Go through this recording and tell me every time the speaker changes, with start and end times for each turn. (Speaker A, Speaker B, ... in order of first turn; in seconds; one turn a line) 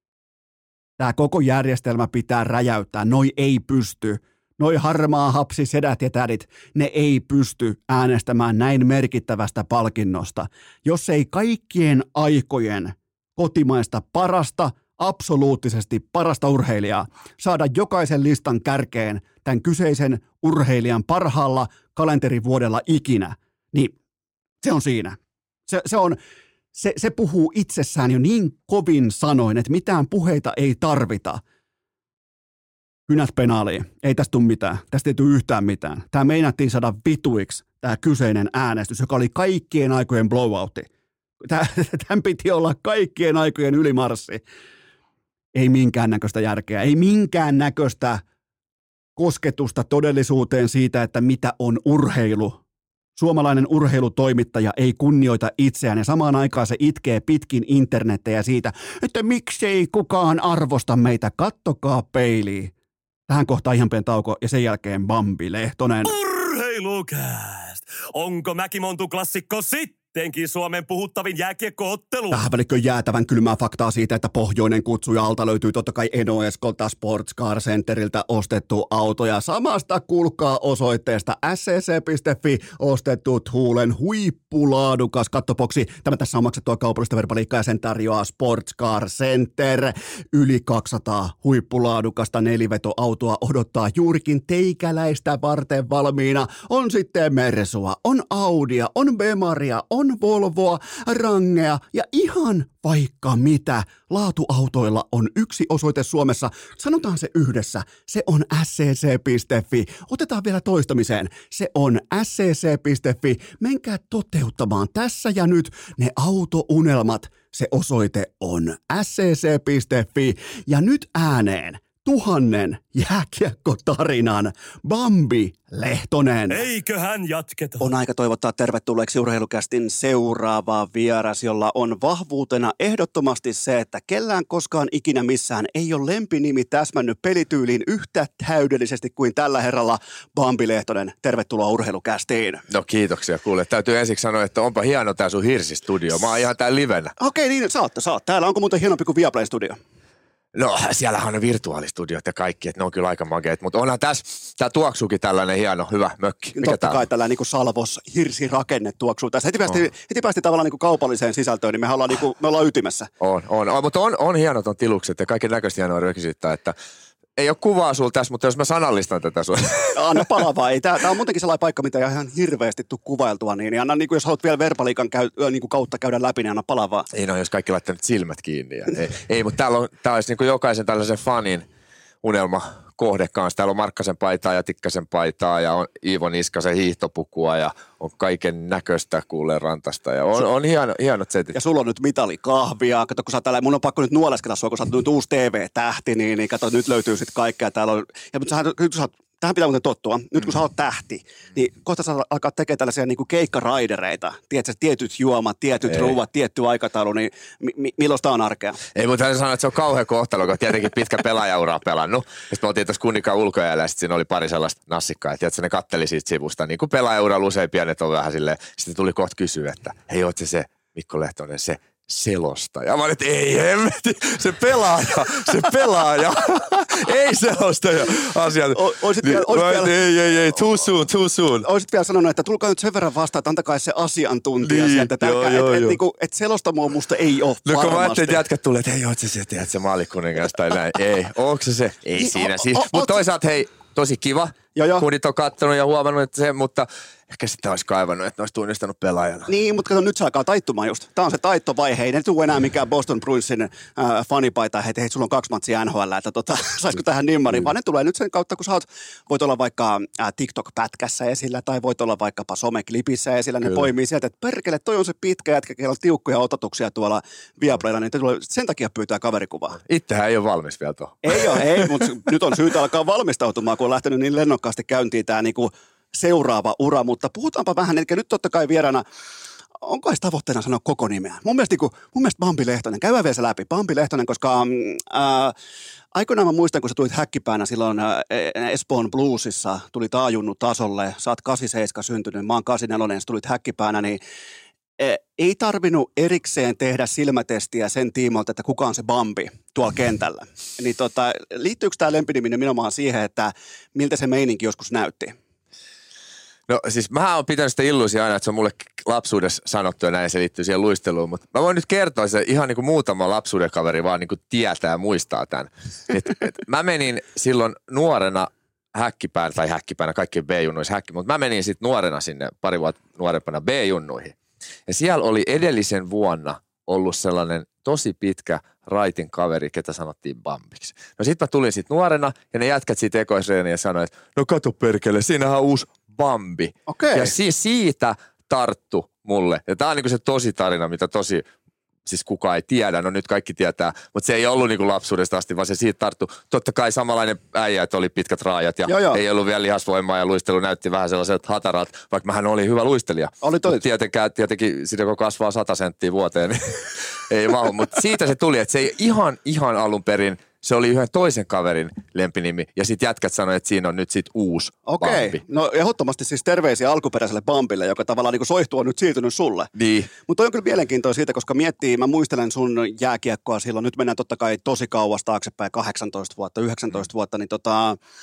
Speaker A: 1.0-23.9
Speaker A: 24.6-25.2
Speaker A: 25.7-26.2
Speaker A: 26.7-31.4
Speaker A: 33.1-40.9
Speaker A: 41.4-44.4
Speaker A: 45.5-48.2
Speaker A: 49.2-52.6
Speaker A: 53.1-62.7
Speaker A: 63.3-66.2
Speaker B: 66.0-72.4
Speaker A: 72.3-126.7
Speaker B: 126.5-127.9
Speaker A: 127.8-142.6
Speaker C: 142.7-147.1
Speaker A: 147.2-149.8
Speaker C: 150.5-157.0
Speaker A: 156.6-163.1
Speaker C: 163.2-166.7
Speaker C: 167.4-170.2
Speaker A: 169.9-177.1
Speaker C: 177.1-181.6
Speaker C: 182.2-191.6
Speaker A: 191.5-208.8
Speaker C: 208.9-231.7
Speaker A: 228.7-230.6
Speaker A: 231.6-238.4
Speaker C: 234.6-236.0
Speaker C: 237.7-249.5
Speaker A: 242.2-243.2
Speaker A: 244.7-245.0
Speaker A: 249.5-269.8
Speaker C: 269.8-271.9
Speaker A: 271.2-279.0
Speaker A: 279.8-285.5
Speaker A: 286.1-294.2
Speaker A: 295.0-305.4
Speaker C: 306.7-324.4
Speaker C: 324.9-341.4
Speaker A: 336.9-337.3
Speaker C: 342.1-365.4
Speaker A: 348.9-349.2
Speaker A: 353.4-353.8
Speaker A: 364.9-369.7
Speaker C: 369.7-370.1
Speaker A: 370.2-378.0